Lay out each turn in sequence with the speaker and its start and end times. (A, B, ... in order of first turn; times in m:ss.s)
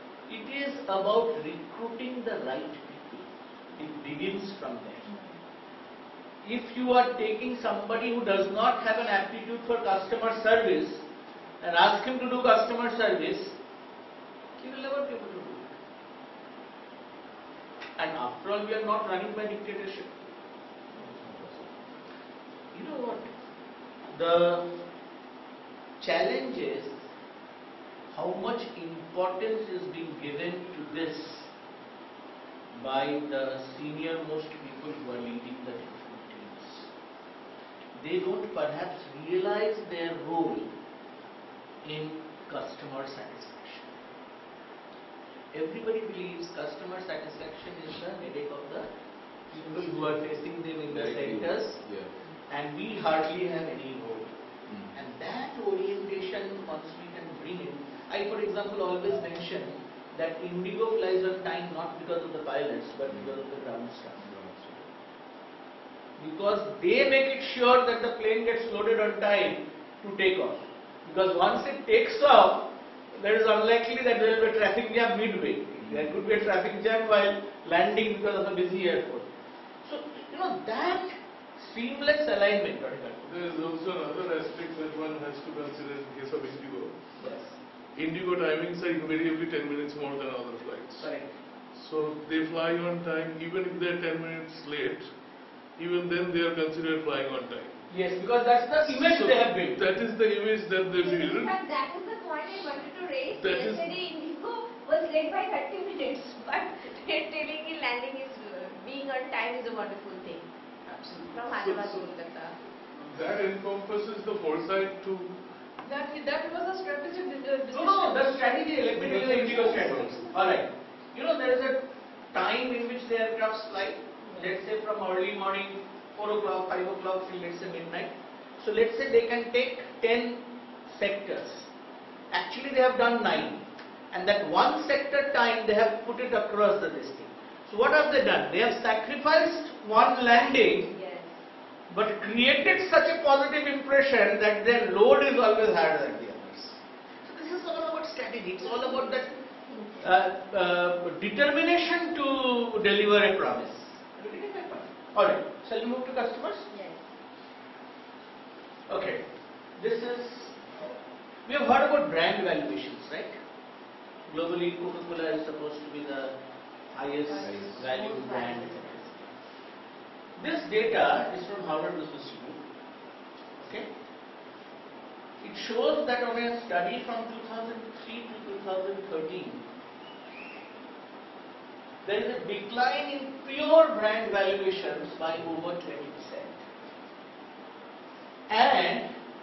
0:00.3-0:05.1 A
0:06.4-0:11.0 A
0:11.6-0:13.6 A
0:14.6-0:15.7 A
0:18.0-0:20.1 A
0:20.9-0:21.7 B
0:22.7-0:23.3 A
0:24.1-0:24.7 A
0:26.0-0:26.9 A
0:28.1-0:31.5 A
0:32.7-0:36.9 A
0:38.0-0:40.7 A
0:41.8-0:43.9 A
0:45.5-0:48.9 A
0:49.5-0:51.9 A
0:50.9-0:52.2 B
0:52.5-0:54.4 A
0:54.7-0:55.0 B
0:54.9-1:04.2 A
1:03.1-1:03.4 B
1:04.2-1:04.9 B
1:06.2-1:19.3 A
1:15.8-1:16.2 B
1:19.8-1:23.2 A
1:23.2-1:27.0 C
1:27.2-1:27.6 A
1:28.0-1:31.1 C
1:31.0-1:31.4 A
1:31.8-1:35.1 C
1:35.8-1:37.8 C
1:37.9-1:39.8 A
1:38.8-1:41.5 C
1:41.0-1:50.4 D
1:43.4-1:43.9 C
1:50.9-1:51.4 E
1:51.2-1:52.6 D
1:51.5-1:52.1 C
1:53.0-1:55.3 C
1:55.8-2:00.4 E
1:57.7-2:11.7 A
2:12.3-2:20.9 A
2:20.8-2:21.3 D
2:21.9-2:29.3 A
2:28.6-2:30.0 D
2:30.0-2:36.7 A
2:36.7-2:37.0 D
2:38.9-2:39.2 A
2:39.8-2:40.6 A
2:41.4-2:43.4 A
2:44.3-2:46.4 A
2:46.9-2:49.1 A
2:47.4-2:47.9 B
2:48.1-2:48.5 D
2:50.4-2:52.6 A
2:53.6-2:53.9 A
2:55.4-2:59.6 A
3:02.0-3:06.6 A
3:08.5-3:09.1 A